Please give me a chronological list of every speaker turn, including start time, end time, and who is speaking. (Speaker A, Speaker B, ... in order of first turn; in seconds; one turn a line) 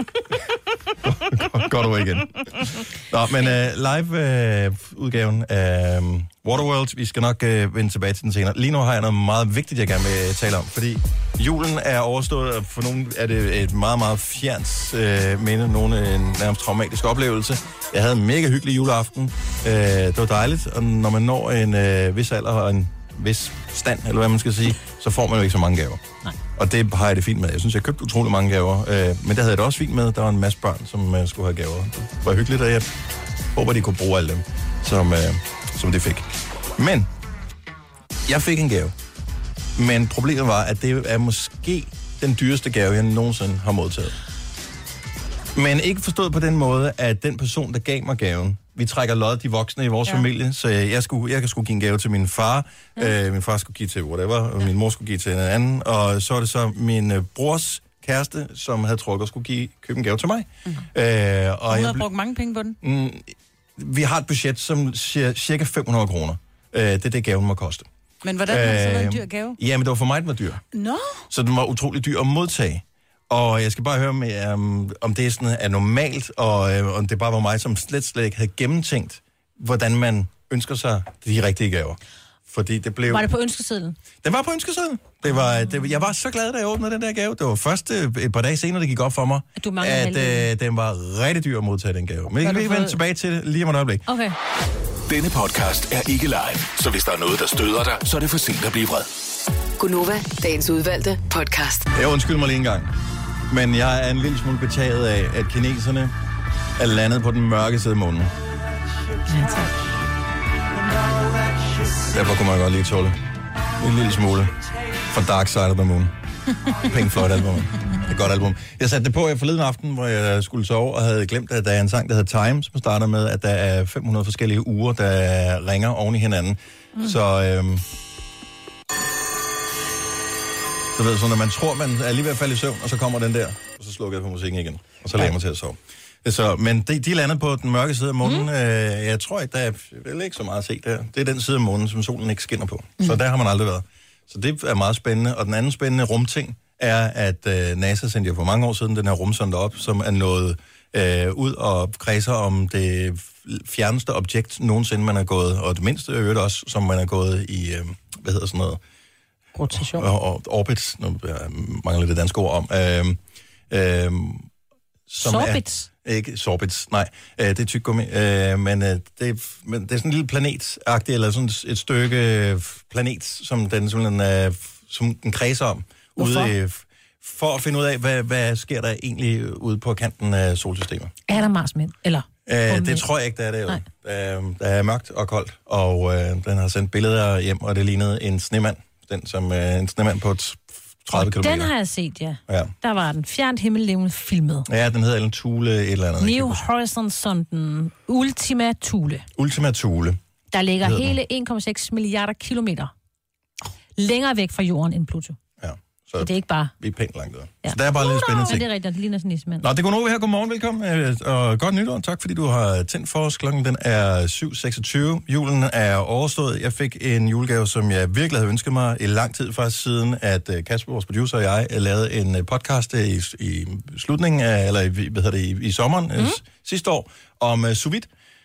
Speaker A: 1.0-26.0
Speaker A: 26.5-32.9
Speaker A: 33.5-37.1
Speaker A: 38.3-38.9
Speaker A: 39.8-44.2
Speaker A: 45.5-62.1
Speaker B: 61.7-62.8
Speaker A: 62.8-67.9
Speaker B: 68.2-69.6
Speaker A: 68.5-70.6
Speaker B: 70.7-71.2
Speaker A: 71.3-83.3
Speaker C: 83.1-84.0
Speaker A: 84.2-94.1
Speaker C: 89.6-90.5
Speaker C: 92.5-92.9
Speaker C: 94.1-94.4
Speaker D: 95.1-99.1
Speaker E: 99.8-101.9
Speaker A: 101.9-102.9
Speaker A: 103.5-106.1
Speaker A: 106.8-108.3
Speaker A: 112.0-113.2
Speaker A: 113.8-114.5
Speaker A: 115.1-116.1
Speaker A: 116.7-127.8
Speaker A: 130.9-158.8
Speaker B: 159.6-160.1
Speaker A: 159.7-163.2
Speaker A: 163.7-164.5
Speaker A: 165.1-181.1
Speaker C: 165.2-165.9
Speaker B: 176.2-176.5
Speaker C: 181.3-183.0
Speaker A: 182.5-191.7
Speaker C: 191.1-194.7
Speaker A: 192.5-192.7
Speaker A: 194.7-196.6
Speaker C: 196.2-199.3
Speaker A: 199.4-200.2
Speaker C: 200.5-202.9
Speaker A: 200.8-201.2
Speaker C: 204.0-205.4
Speaker A: 205.6-208.7
Speaker C: 206.2-206.7
Speaker C: 207.6-209.7
Speaker A: 209.6-228.1